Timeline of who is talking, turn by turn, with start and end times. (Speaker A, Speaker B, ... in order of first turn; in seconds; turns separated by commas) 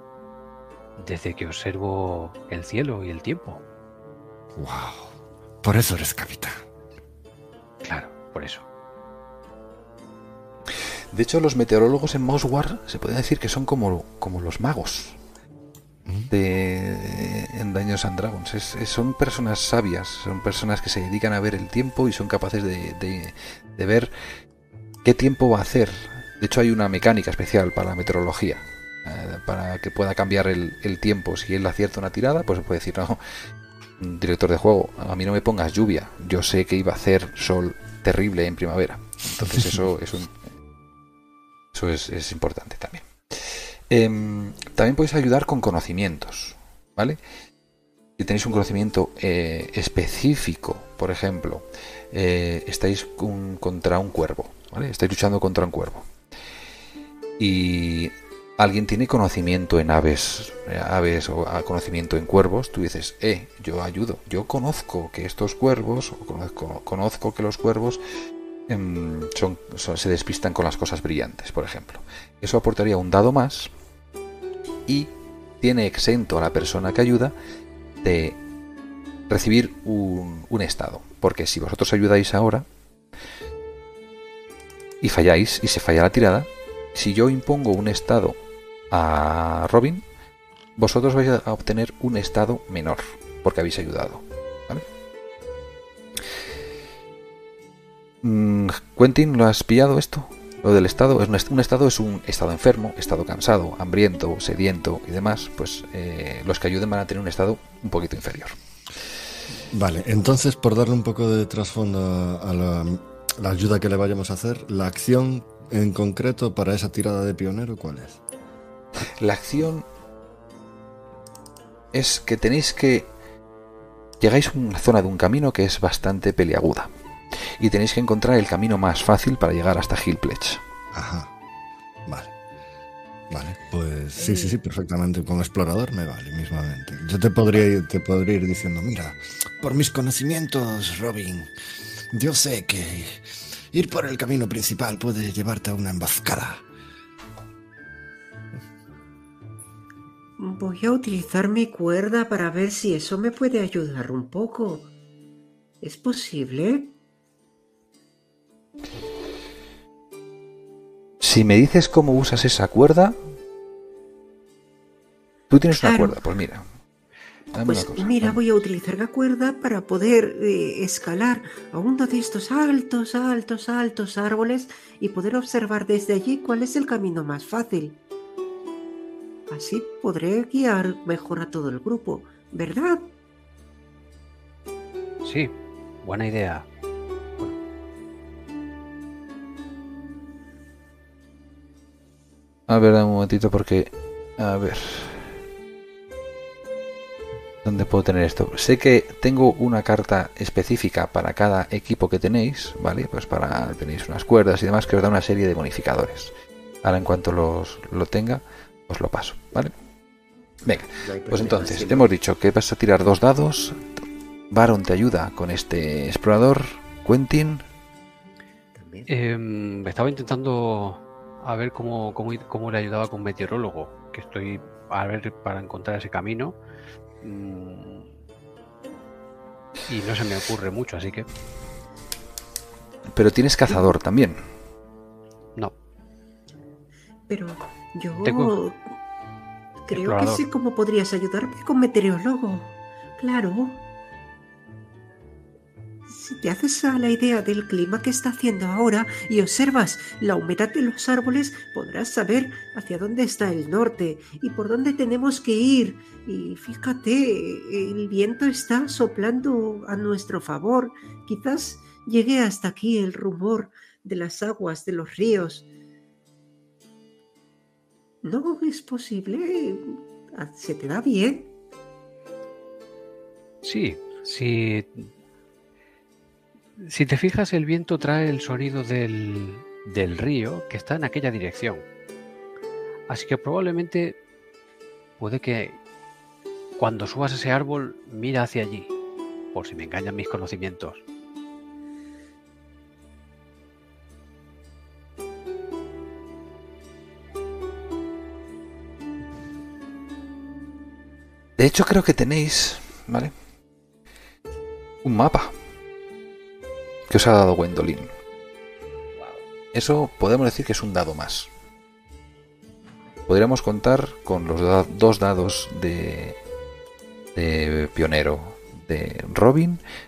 Speaker A: 1.0-3.6, Speaker B: 4.5-6.6, Speaker A: 7.8-8.6, Speaker C: 11.1-15.2, Speaker B: 16.0-16.3, Speaker C: 16.3-24.1, Speaker C: 25.0-33.2, Speaker C: 34.0-40.4, Speaker C: 41.7-47.2, Speaker C: 48.2-56.1, Speaker C: 57.4-68.0, Speaker C: 68.7-73.7, Speaker C: 74.9-77.3, Speaker C: 78.0-78.4, Speaker C: 79.3-82.7, Speaker C: 85.0-88.4, Speaker C: 88.9-90.0, Speaker C: 90.8-94.8, Speaker C: 98.2-108.5, Speaker B: 109.7-118.2, Speaker C: 119.1-119.8, Speaker C: 121.9-123.1, Speaker C: 124.2-126.9, Speaker C: 127.6-130.6, Speaker B: 130.9-131.3, Speaker B: 132.1-132.3, Speaker B: 133.3-141.5, Speaker D: 134.2-134.6, Speaker B: 142.1-146.6, Speaker D: 150.4-154.9, Speaker D: 155.8-156.9, Speaker C: 161.2-163.2, Speaker C: 165.5-166.7, Speaker D: 165.8-166.2, Speaker C: 167.5-168.4, Speaker D: 167.7-178.0, Speaker D: 179.5-183.0, Speaker A: 185.2-186.7, Speaker C: 192.7-195.3, Speaker C: 197.6-209.7, Speaker C: 210.6-213.8, Speaker D: 211.0-212.1, Speaker C: 214.5-217.6, Speaker D: 218.7-219.1, Speaker A: 219.1-226.6, Speaker A: 227.2-228.1, Speaker A: 229.9-231.3, Speaker C: 233.1-234.4, Speaker D: 237.3-238.8, Speaker A: 238.2-238.6, Speaker D: 239.8-243.8, Speaker A: 239.9-240.4, Speaker D: 246.1-265.6, Speaker D: 268.2-271.5, Speaker A: 273.6-275.1, Speaker A: 276.8-281.8, Speaker A: 283.1-284.2, Speaker A: 285.2-285.8, Speaker A: 286.8-288.9, Speaker A: 289.5-291.0, Speaker C: 301.6-303.3, Speaker C: 305.0-305.5, Speaker C: 307.1-308.1, Speaker D: 309.1-309.4, Speaker C: 309.7-311.5, Speaker C: 313.3-316.4, Speaker C: 317.3-319.8